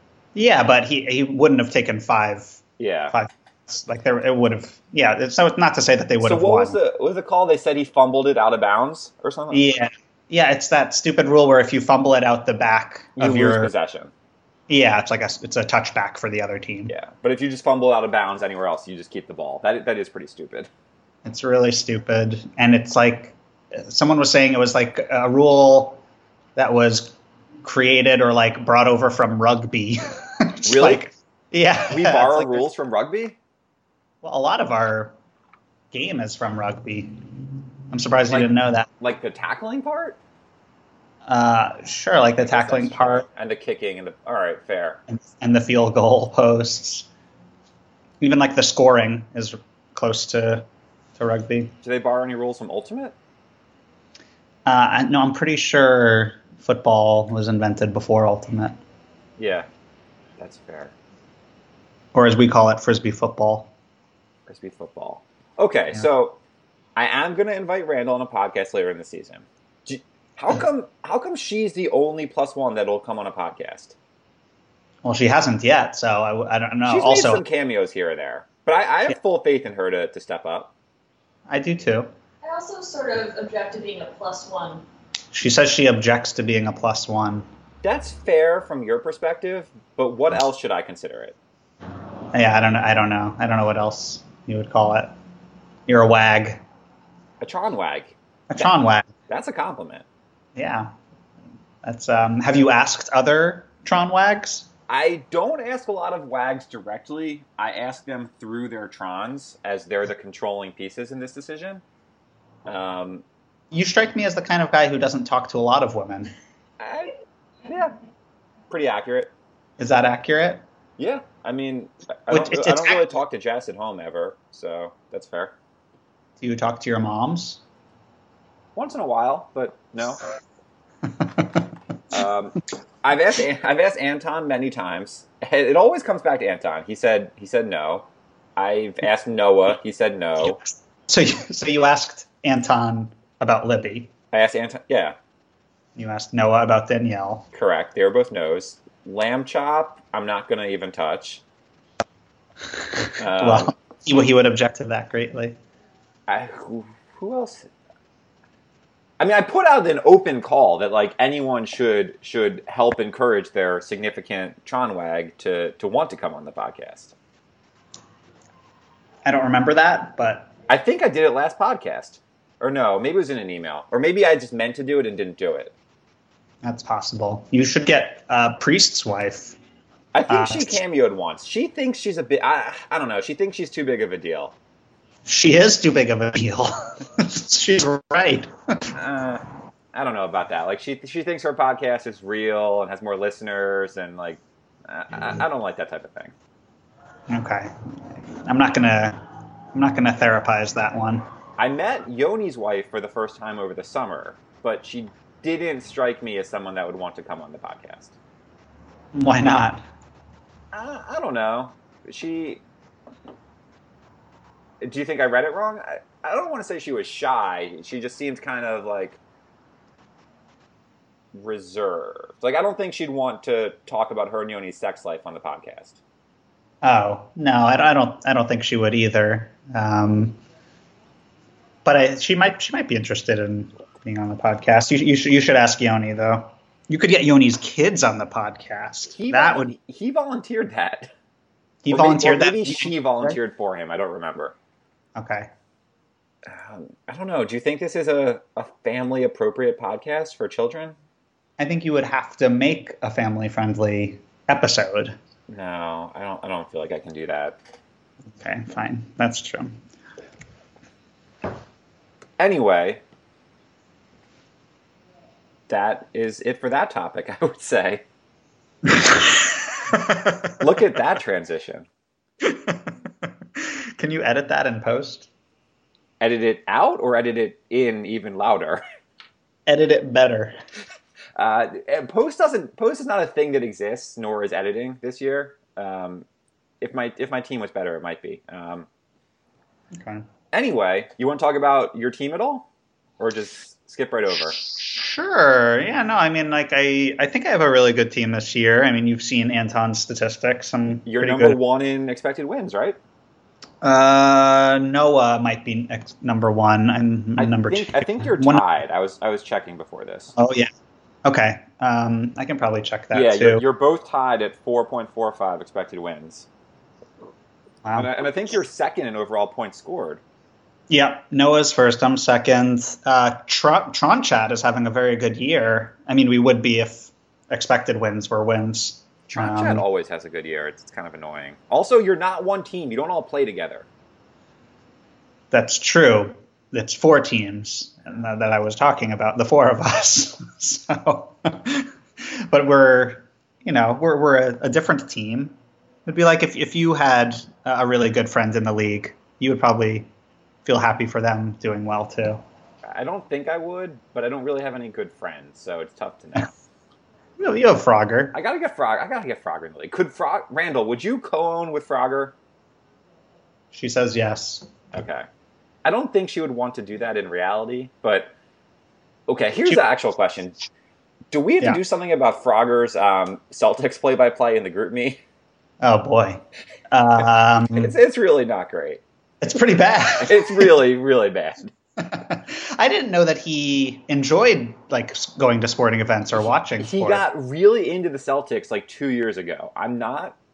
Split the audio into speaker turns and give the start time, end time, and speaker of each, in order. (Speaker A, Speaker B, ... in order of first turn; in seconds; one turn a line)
Speaker A: 0.3-6.8
Speaker B: 2.8-3.1
Speaker B: 6.2-9.7
Speaker A: 9.5-13.7
Speaker B: 13.2-14.1
Speaker A: 14.7-16.9
Speaker B: 16.9-20.7
Speaker A: 21.2-26.0
Speaker A: 26.6-32.6
Speaker B: 30.7-31.1
Speaker B: 31.9-33.4
Speaker A: 34.2-35.1
Speaker A: 35.9-37.1
Speaker A: 37.9-38.9
Speaker B: 38.3-40.2
Speaker A: 41.3-43.3
Speaker B: 42.4-45.0
Speaker A: 45.1-47.1
Speaker A: 48.2-51.7
Speaker B: 51.8-53.1
Speaker A: 54.7-58.8
Speaker B: 59.4-59.7
Speaker B: 60.4-61.0
Speaker A: 62.1-63.7
Speaker B: 64.5-66.4
Speaker B: 67.0-74.0
Speaker A: 75.0-77.4
Speaker B: 76.9-80.7
Speaker A: 81.5-82.1
Speaker C: 82.4-84.8
Speaker A: 85.3-87.5
Speaker B: 87.8-91.4
Speaker A: 92.3-95.2
Speaker A: 95.9-96.6
Speaker B: 97.4-98.7
Speaker A: 98.5-99.1
Speaker B: 99.3-100.0
Speaker A: 100.6-100.9
Speaker A: 101.8-104.7
Speaker B: 104.9-111.8
Speaker B: 112.7-113.2
Speaker A: 113.7-116.3
Speaker B: 116.8-117.1
Speaker B: 117.7-117.9
Speaker B: 118.7-119.3
Speaker A: 119.8-120.6
Speaker B: 121.0-125.5
Speaker A: 122.3-123.1
Speaker A: 126.4-127.6
Speaker B: 128.8-130.2
Speaker B: 132.1-140.6
Speaker A: 140.4-144.1
Speaker B: 144.3-145.2
Speaker A: 145.9-147.5
Speaker B: 147.5-151.4
Speaker B: 153.2-153.7
Speaker A: 153.3-155.6
Speaker B: 156.3-157.7
Speaker B: 159.2-167.1
Speaker A: 169.2-170.5
Speaker B: 170.7-175.7
Speaker A: 176.6-179.6
Speaker B: 180.1-184.6
Speaker A: 180.3-180.8
Speaker A: 185.3-188.5
Speaker B: 188.9-189.4
Speaker B: 189.9-196.3
Speaker A: 197.3-199.2
Speaker A: 199.7-201.3
Speaker B: 201.6-208.2
Speaker A: 209.1-209.8
Speaker B: 210.7-212.6
Speaker B: 214.8-219.2
Speaker B: 221.3-226.0
Speaker A: 226.8-230.4
Speaker A: 231.8-239.8
Speaker B: 239.2-241.1
Speaker A: 241.8-243.3
Speaker B: 241.9-244.6
Speaker A: 245.2-245.5
Speaker B: 246.5-251.0
Speaker A: 251.6-255.2
Speaker B: 255.5-257.6
Speaker A: 258.4-259.8
Speaker B: 262.4-263.0
Speaker B: 265.7-268.0
Speaker A: 268.9-270.6
Speaker B: 270.6-271.9
Speaker A: 272.4-275.3
Speaker B: 276.2-278.8
Speaker A: 279.7-280.6
Speaker B: 281.4-286.3
Speaker B: 286.8-288.9
Speaker A: 289.9-290.2
Speaker B: 290.5-292.7
Speaker B: 293.2-294.6
Speaker A: 294.8-301.6
Speaker B: 301.1-303.0
Speaker A: 303.8-308.6
Speaker B: 307.4-310.4
Speaker A: 310.4-310.7
Speaker A: 311.2-313.6
Speaker B: 313.1-316.5
Speaker B: 317.9-320.2
Speaker A: 320.9-329.8
Speaker B: 329.3-333.9
Speaker A: 335.5-350.1
Speaker A: 350.6-352.4
Speaker B: 352.9-356.5
Speaker A: 357.4-358.4
Speaker B: 358.3-362.4
Speaker A: 363.7-364.7
Speaker B: 364.9-365.3
Speaker B: 365.8-368.3
Speaker B: 369.3-370.6
Speaker B: 371.3-375.2
Speaker A: 375.8-377.9
Speaker B: 377.7-379.0
Speaker A: 379.4-380.8
Speaker B: 380.2-381.7
Speaker A: 382.0-387.2
Speaker B: 386.8-390.4